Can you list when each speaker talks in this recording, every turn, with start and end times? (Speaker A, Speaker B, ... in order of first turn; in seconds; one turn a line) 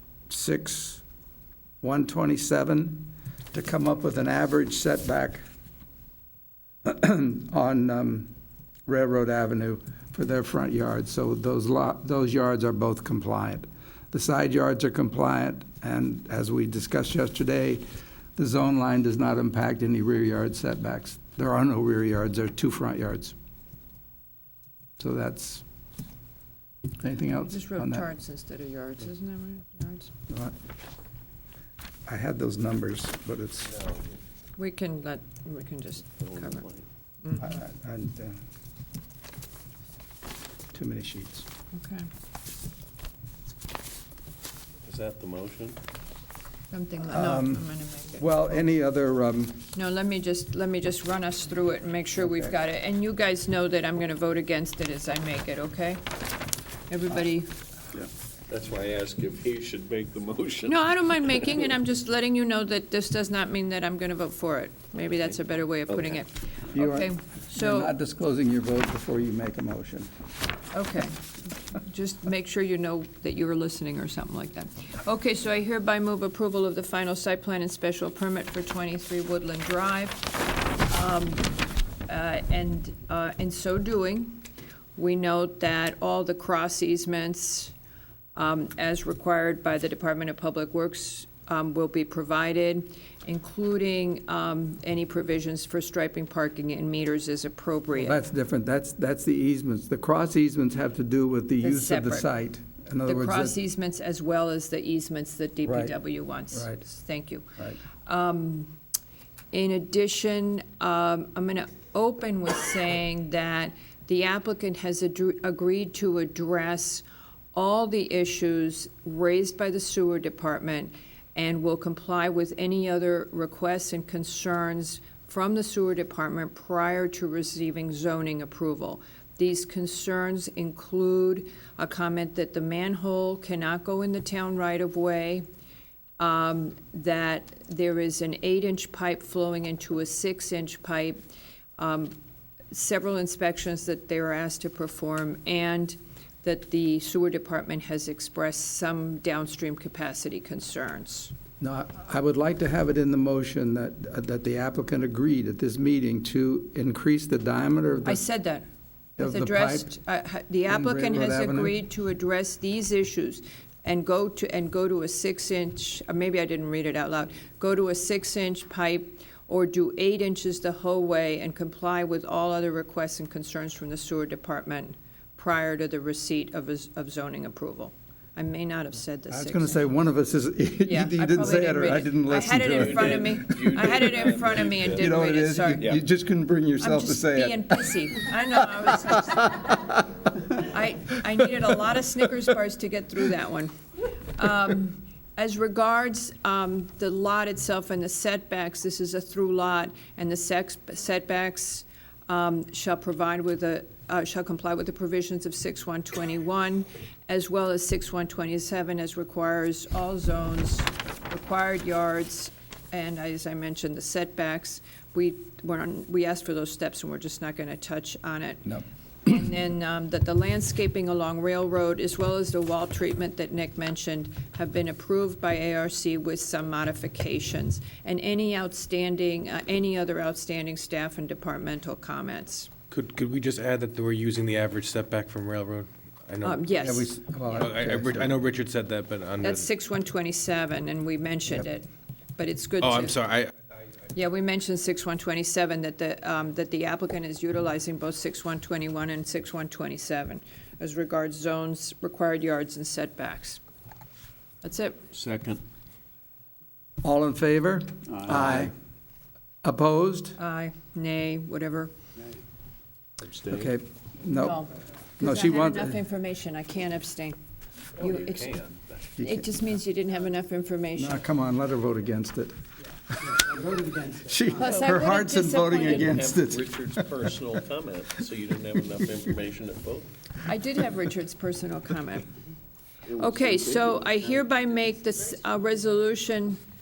Speaker A: 0.3-1.0
Speaker A: 1.8-5.4
Speaker A: 6.8-8.3
Speaker A: 8.8-17.8
Speaker A: 18.4-23.4
Speaker A: 25.0-25.6
Speaker A: 27.0-28.0
Speaker B: 27.4-30.1
Speaker A: 30.3-30.6
Speaker A: 32.1-33.7
Speaker B: 34.6-36.6
Speaker C: 36.2-36.8
Speaker A: 37.4-38.4
Speaker A: 40.7-41.5
Speaker B: 41.7-42.1
Speaker C: 44.8-45.8
Speaker B: 46.7-48.4
Speaker A: 47.1-49.6
Speaker B: 49.7-56.0
Speaker A: 52.2-52.5
Speaker B: 56.9-57.5
Speaker C: 58.5-61.6
Speaker B: 60.7-67.9
Speaker C: 65.9-66.2
Speaker A: 66.7-70.1
Speaker B: 70.7-71.2
Speaker B: 71.7-80.3
Speaker B: 80.8-81.5
Speaker B: 82.1-84.4
Speaker B: 85.0-87.7
Speaker B: 88.3-98.2
Speaker A: 97.9-103.6
Speaker B: 101.6-102.3
Speaker B: 103.0-107.5
Speaker A: 105.6-105.9
Speaker A: 106.5-106.8
Speaker B: 108.0-108.7
Speaker B: 109.5-135.4
Speaker B: 136.2-141.2
Speaker B: 141.8-142.1
Speaker B: 142.7-151.3
Speaker A: 151.6-158.2
Speaker B: 158.0-158.6
Speaker A: 159.2-159.9
Speaker B: 159.2-179.8
Speaker A: 160.7-161.8
Speaker A: 179.3-183.4
Speaker B: 180.8-185.9
Speaker C: 182.6-185.1
Speaker A: 184.9-188.0
Speaker B: 186.8-189.8
Speaker A: 189.3-190.0
Speaker B: 190.5-193.7
Speaker B: 194.4-232.7
Speaker D: 232.9-236.6
Speaker B: 236.4-237.7
Speaker A: 236.8-238.4
Speaker D: 237.6-239.7
Speaker B: 239.4-243.2
Speaker D: 242.8-243.5
Speaker B: 244.1-253.6
Speaker B: 254.6-255.0
Speaker C: 255.1-255.6
Speaker A: 257.0-258.7
Speaker A: 259.6-260.4
Speaker B: 260.4-261.9
Speaker C: 263.2-263.7
Speaker A: 263.5-264.6
Speaker B: 264.3-267.4
Speaker A: 265.2-266.0
Speaker B: 267.9-268.5
Speaker C: 268.0-269.0
Speaker A: 269.2-269.5
Speaker B: 269.2-271.3
Speaker A: 271.0-272.5
Speaker A: 273.1-277.0
Speaker B: 274.5-276.2
Speaker C: 275.7-280.1
Speaker B: 280.4-282.3
Speaker C: 283.1-284.4
Speaker B: 283.2-286.6